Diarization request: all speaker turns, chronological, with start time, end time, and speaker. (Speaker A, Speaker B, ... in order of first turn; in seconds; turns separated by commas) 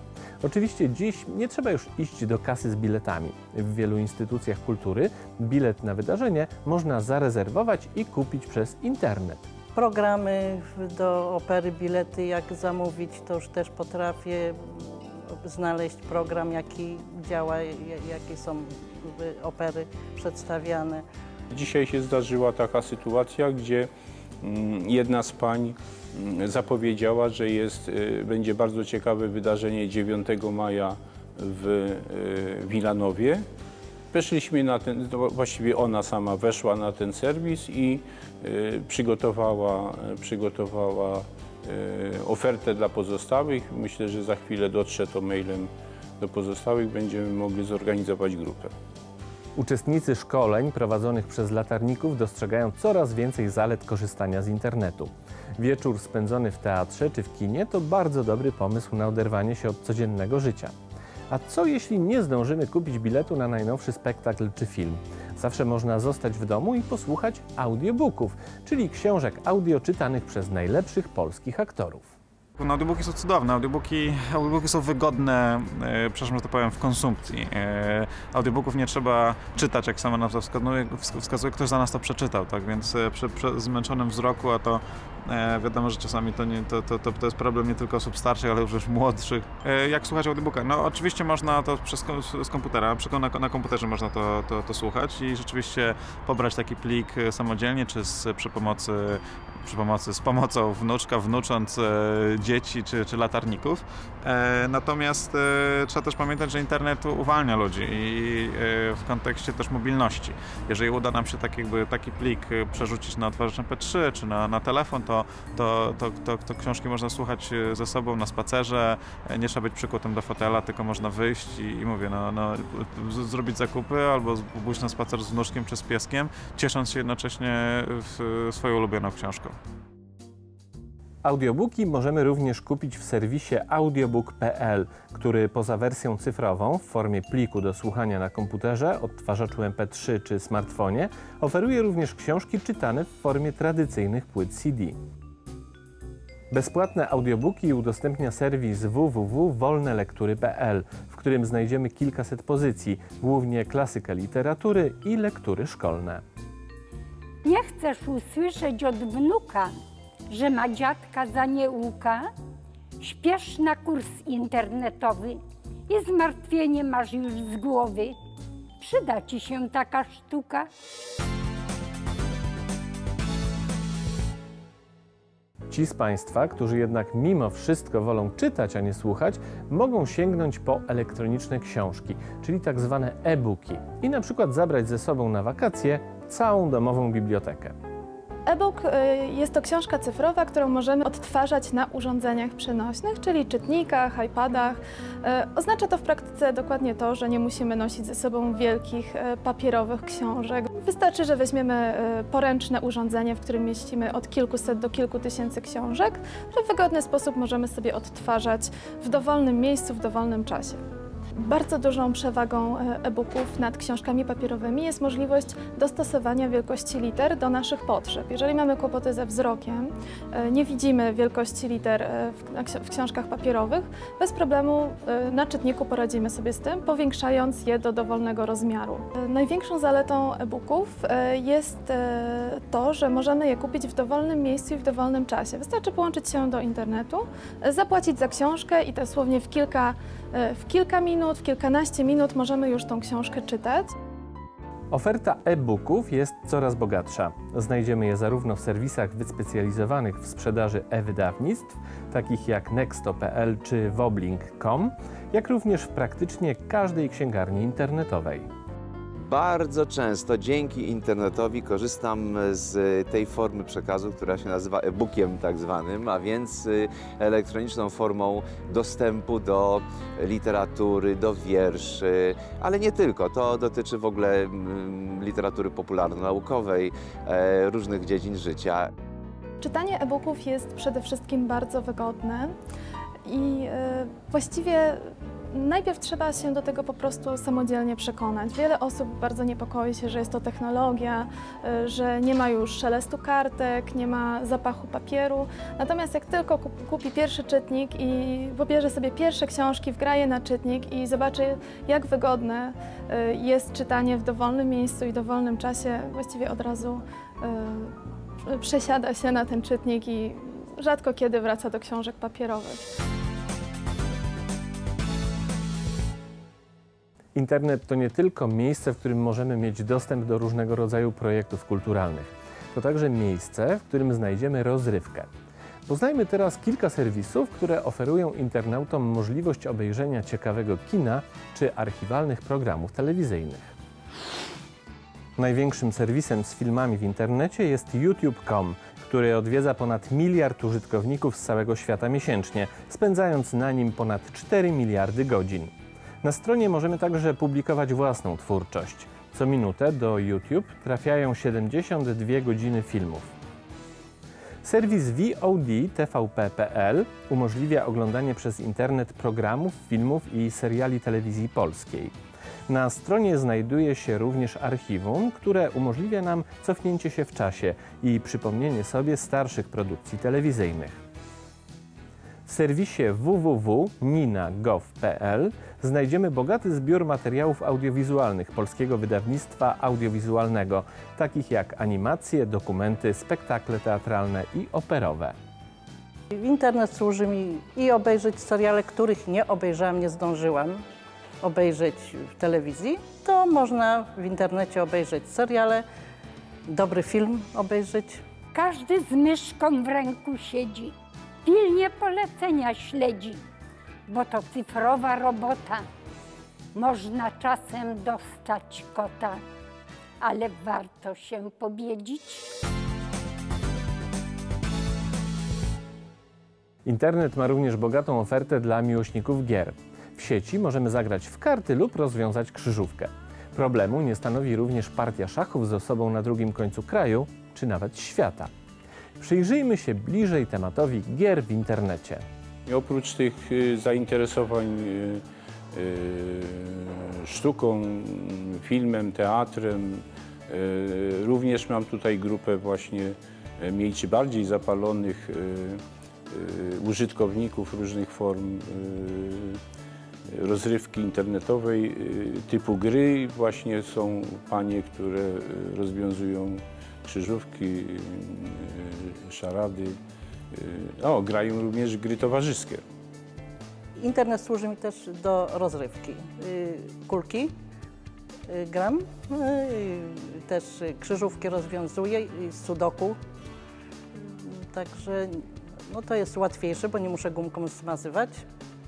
Speaker A: 0.4-9.5, Speaker B: 9.7-21.0, Speaker C: 21.5-23.9, Speaker C: 24.4-33.4, Speaker C: 34.1-48.7, Speaker A: 49.6-60.7, Speaker A: 61.3-72.1, Speaker D: 72.6-129.5, Speaker A: 131.2-145.0, Speaker A: 146.5-156.2, Speaker E: 157.4-159.8, Speaker E: 160.3-162.3, Speaker E: 163.0-168.2, Speaker E: 168.8-170.7, Speaker A: 175.7-187.7, Speaker F: 188.5-210.8, Speaker F: 211.4-243.9, Speaker A: 244.9-258.5, Speaker G: 259.2-278.9, Speaker F: 279.6-282.5, Speaker F: 283.2-307.9, Speaker F: 308.5-312.9, Speaker A: 317.3-325.3, Speaker A: 325.9-333.7, Speaker A: 335.4-353.3, Speaker A: 354.6-362.1, Speaker A: 362.7-371.0, Speaker A: 372.5-385.3, Speaker B: 386.3-390.8, Speaker B: 391.4-395.8, Speaker B: 396.7-398.2, Speaker E: 398.5-400.9, Speaker E: 401.4-403.4, Speaker E: 404.1-405.9, Speaker E: 406.7-409.4, Speaker E: 410.2-412.5, Speaker A: 416.8-428.5, Speaker A: 429.2-432.2, Speaker C: 432.7-435.2, Speaker C: 435.7-449.6, Speaker C: 450.3-460.0, Speaker C: 460.5-462.8, Speaker B: 464.0-467.5, Speaker B: 468.5-473.2, Speaker B: 474.1-475.4, Speaker B: 475.9-478.4